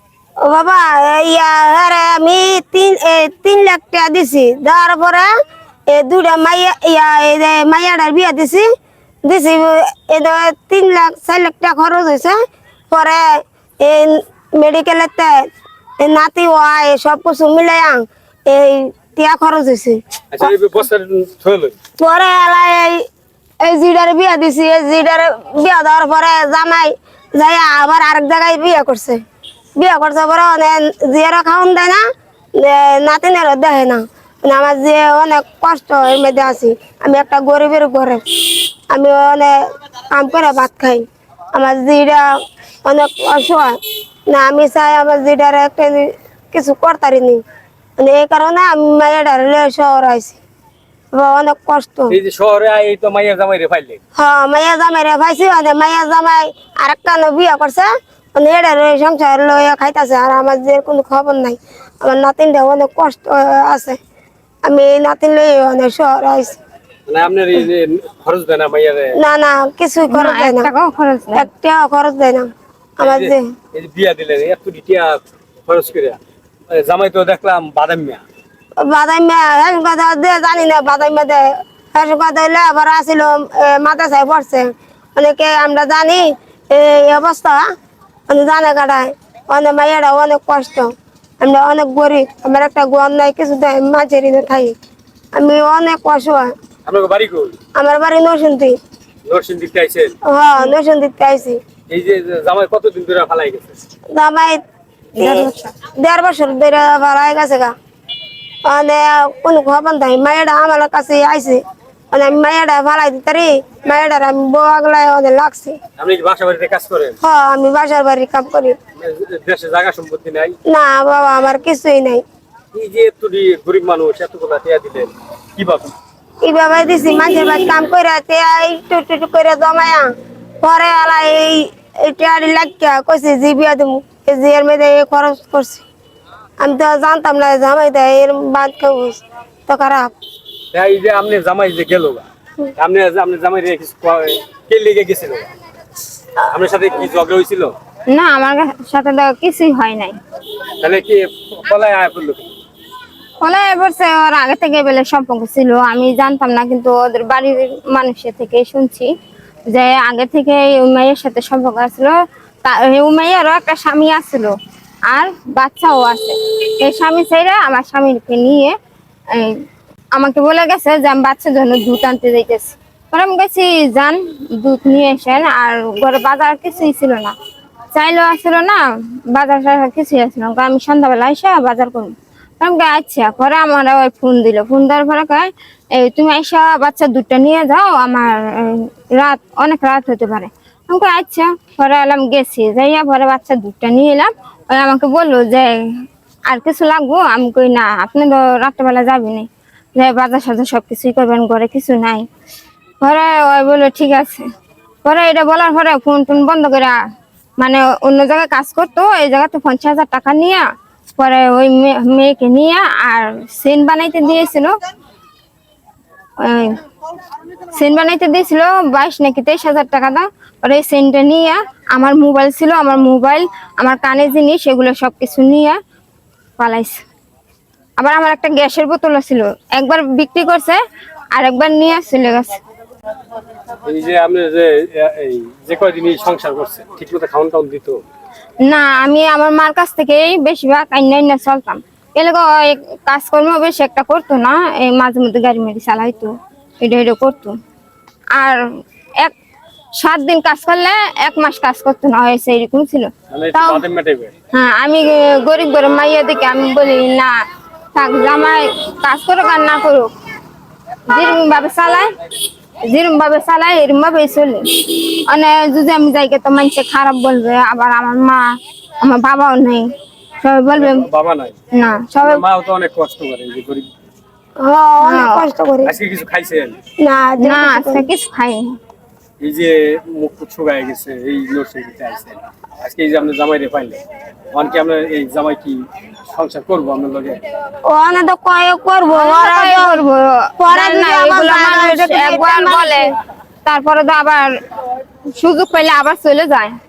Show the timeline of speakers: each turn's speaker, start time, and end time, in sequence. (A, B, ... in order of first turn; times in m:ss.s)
0:00.4-0:05.3 A
0:05.9-0:08.7 A
0:09.2-0:12.4 A
0:12.9-0:15.5 A
0:16.0-0:20.5 A
0:20.3-0:21.7 B
0:22.0-0:23.0 A
0:23.6-0:29.2 A
0:29.8-0:32.0 A
0:32.6-0:38.2 A
0:38.9-0:43.8 A
0:44.3-0:47.4 A
0:48.0-0:50.4 A
0:51.1-0:52.2 A
0:52.1-0:54.0 B
0:54.1-1:04.0 A
1:04.6-1:06.6 A
1:07.1-1:09.2 B
1:09.1-1:10.7 A
1:10.1-1:11.5 C
1:11.3-1:13.5 A
1:13.0-1:16.2 B
1:16.7-1:18.2 B
1:18.8-1:27.6 A
1:28.3-1:34.8 A
1:35.3-1:36.5 A
1:36.8-1:37.6 B
1:37.7-1:38.8 A
1:39.2-1:40.1 B
1:40.2-1:41.6 A
1:41.9-1:43.8 B
1:44.1-1:44.6 A
1:45.1-1:45.7 C
1:45.2-1:47.7 A
1:48.6-1:55.8 A
1:56.0-1:57.2 B
1:57.2-1:58.8 A
1:59.0-2:00.6 B
2:00.7-2:02.2 A
2:02.7-2:05.9 B
2:06.4-2:15.8 A
2:16.6-2:20.1 A
2:20.7-2:22.2 B
2:22.8-2:25.4 B
2:26.4-2:27.7 B
2:28.1-2:30.2 C
2:30.8-2:32.6 B
2:33.4-2:39.1 C
2:39.7-2:44.5 C
2:45.1-2:48.7 C
2:49.3-2:49.6 C
2:50.1-2:57.3 C
2:57.9-3:15.8 C
3:16.5-3:22.2 C
3:23.0-3:24.4 C
3:25.0-3:27.0 C
3:27.6-3:34.7 C
3:36.4-3:36.8 C
3:37.7-3:45.8 C
3:46.6-3:47.0 C
3:48.0-3:50.8 C
3:51.3-3:52.6 C
3:53.8-3:58.0 B
3:58.6-4:07.6 C
4:08.3-4:08.6 C
4:10.0-4:13.8 C
4:13.3-4:14.3 B
4:14.5-4:17.4 C
4:17.9-4:20.1 C
4:21.1-4:22.1 C
4:22.8-4:31.0 C
4:30.8-4:31.5 B
4:31.7-4:32.4 C
4:32.2-4:33.9 B
4:34.6-4:35.9 A
4:35.0-4:35.4 C
4:35.8-4:36.8 B
4:37.0-4:38.1 A
4:37.4-4:38.8 C
4:39.4-4:44.0 B
4:44.5-4:47.4 B
4:47.8-4:50.0 A
4:49.1-4:53.1 C
4:50.6-4:53.1 A
4:53.6-4:54.5 C
4:55.3-4:56.7 C